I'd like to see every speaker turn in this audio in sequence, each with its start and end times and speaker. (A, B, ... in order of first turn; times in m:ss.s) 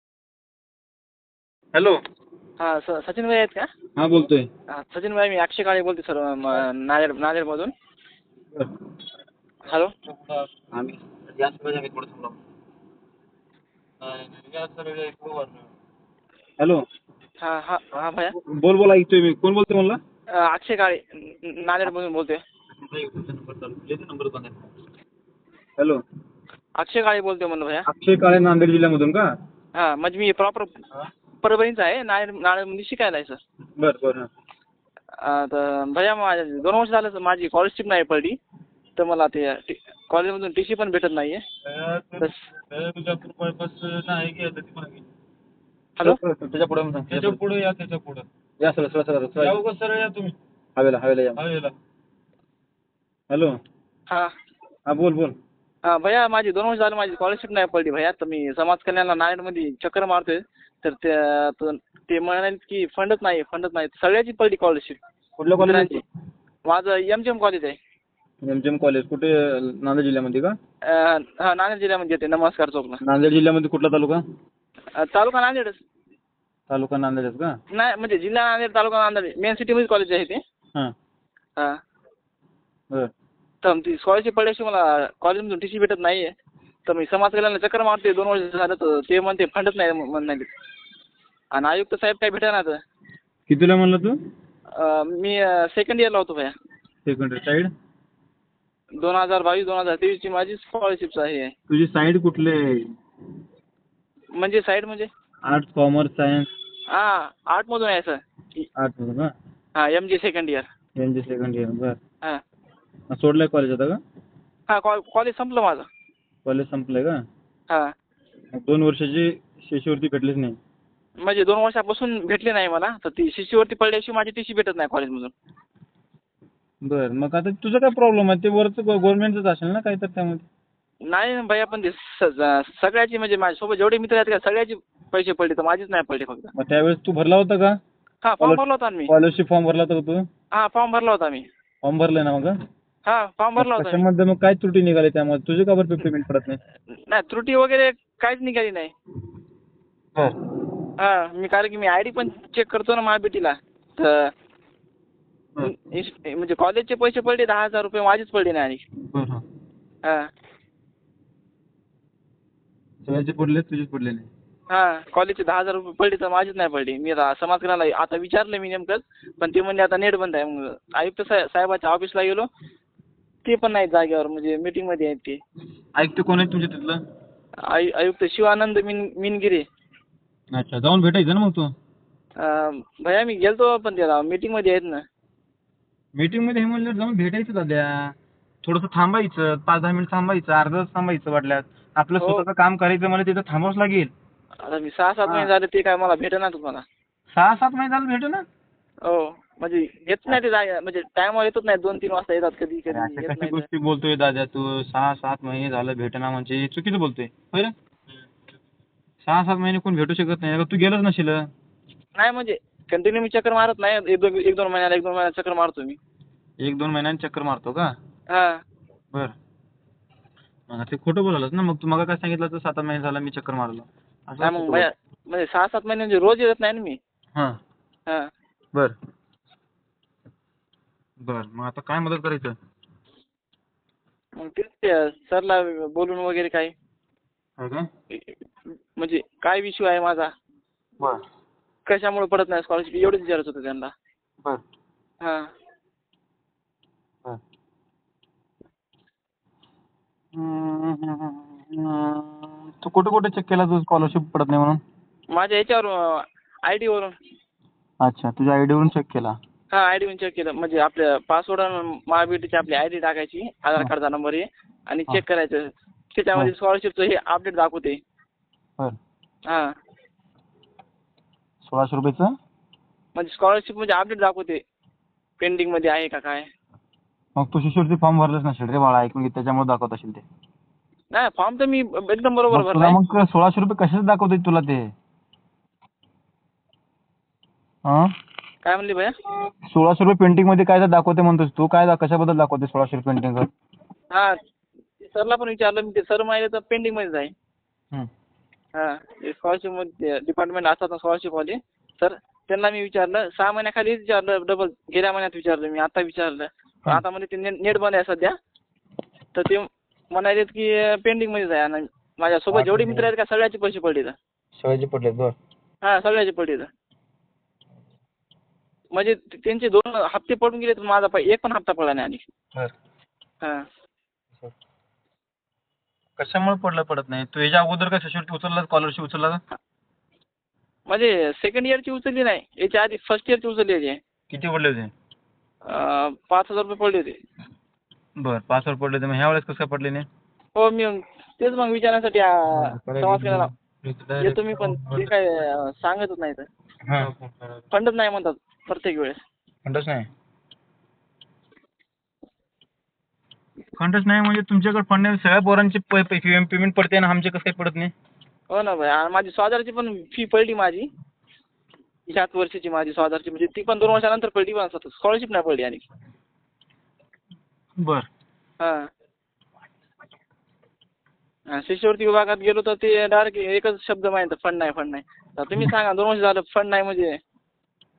0:02.6-0:03.7 A
0:04.0-0:04.5 B
0:04.7-0:07.7 A
0:10.7-0:12.3 B
0:14.0-0:15.6 C
0:17.4-0:18.4 A
0:18.4-0:20.0 B
0:20.4-0:22.4 A
0:22.8-0:24.7 B
0:26.8-0:27.9 A
0:27.9-0:29.3 B
0:29.8-0:30.8 A
0:31.4-0:33.4 A
0:33.8-0:34.3 B
0:35.2-0:38.4 A
0:39.0-0:41.4 A
0:41.9-0:42.2 B
0:42.7-0:44.6 C
0:42.8-0:45.0 B
0:46.0-0:47.8 B
0:47.1-0:48.2 C
0:48.6-0:49.7 B
0:49.5-0:50.3 C
0:50.8-0:51.6 B
0:51.4-0:51.7 C
0:53.3-0:53.6 B
0:54.9-0:55.4 B
0:55.9-1:05.0 A
1:05.4-1:06.0 B
1:05.6-1:06.0 A
1:06.7-1:07.8 A
1:08.4-1:10.6 B
1:10.9-1:13.0 A
1:13.0-1:14.2 B
1:15.0-1:15.8 A
1:16.7-1:17.6 B
1:17.7-1:20.4 A
1:23.6-1:26.3 A
1:26.9-1:30.5 A
1:31.5-1:32.8 A
1:33.5-1:34.2 B
1:34.8-1:36.5 A
1:37.1-1:37.7 B
1:39.0-1:41.5 A
1:41.7-1:42.8 B
1:44.4-1:45.1 A
1:45.4-1:46.5 B
1:46.9-1:48.7 A
1:48.8-1:49.3 B
1:49.8-1:50.7 A
1:51.0-1:52.0 B
1:53.1-1:54.0 B
1:54.7-1:55.8 A
1:56.4-1:57.2 B
1:58.5-2:00.6 B
2:01.2-2:05.3 A
2:06.8-2:10.4 B
2:11.1-2:16.5 A
2:16.6-2:17.8 B
2:18.2-2:19.1 A
2:18.4-2:20.3 B
2:20.5-2:21.5 A
2:21.8-2:22.6 B
2:23.0-2:24.0 A
2:23.6-2:26.6 B
2:27.1-2:28.9 A
2:31.0-2:34.3 A
2:35.6-2:38.8 A
2:39.1-2:39.4 B
2:43.0-2:44.3 B
2:44.7-2:52.5 A
2:53.4-2:55.4 A
2:56.0-2:57.0 B
2:57.7-2:59.6 A
3:00.5-3:01.7 B
3:02.4-3:05.0 A
3:06.2-3:14.1 B
3:12.2-3:12.4 A
3:14.6-3:16.8 A
3:17.3-3:18.4 B
3:19.0-3:23.7 A
3:22.9-3:27.7 B
3:29.2-3:31.5 B
3:32.2-3:36.0 A
3:36.6-3:37.9 B
3:38.3-3:38.6 A
3:40.7-3:44.9 B
3:44.4-3:47.0 A
3:51.2-3:52.6 B
3:54.4-3:56.7 A
3:57.6-3:57.9 B
3:59.0-4:00.3 A
4:01.9-4:03.9 A
4:05.2-4:05.5 A
4:10.3-4:14.8 B
4:15.3-4:17.2 A
4:18.0-4:19.4 B
4:19.7-4:28.0 A
4:29.5-4:29.7 A
4:31.6-4:32.3 B
4:33.2-4:34.6 A
4:35.4-4:36.5 A
4:37.4-4:40.2 B
4:41.1-4:43.0 A
4:42.5-4:44.9 B
4:47.8-4:48.1 B
4:48.6-4:49.1 A
4:49.7-4:53.5 B
4:54.1-4:54.4 A
4:55.0-4:57.3 A
4:58.8-5:08.4 A
5:09.3-5:14.2 A
5:12.5-5:13.1 B
5:14.6-5:15.4 B
5:15.8-5:16.7 A
5:18.9-5:22.2 A
5:26.2-5:29.4 B
5:30.9-5:34.0 A
5:34.3-5:34.9 B
5:35.7-5:37.2 A
5:38.2-5:40.1 B
5:40.6-5:43.5 A
5:42.5-5:45.1 B
5:44.2-5:46.5 A
5:46.8-5:47.2 B
5:47.7-5:49.2 A
5:49.7-5:50.1 B
5:53.8-5:57.9 B
5:58.5-6:00.9 A
6:02.1-6:05.8 A
6:07.8-6:08.1 B
6:08.6-6:08.9 A
6:11.5-6:17.2 A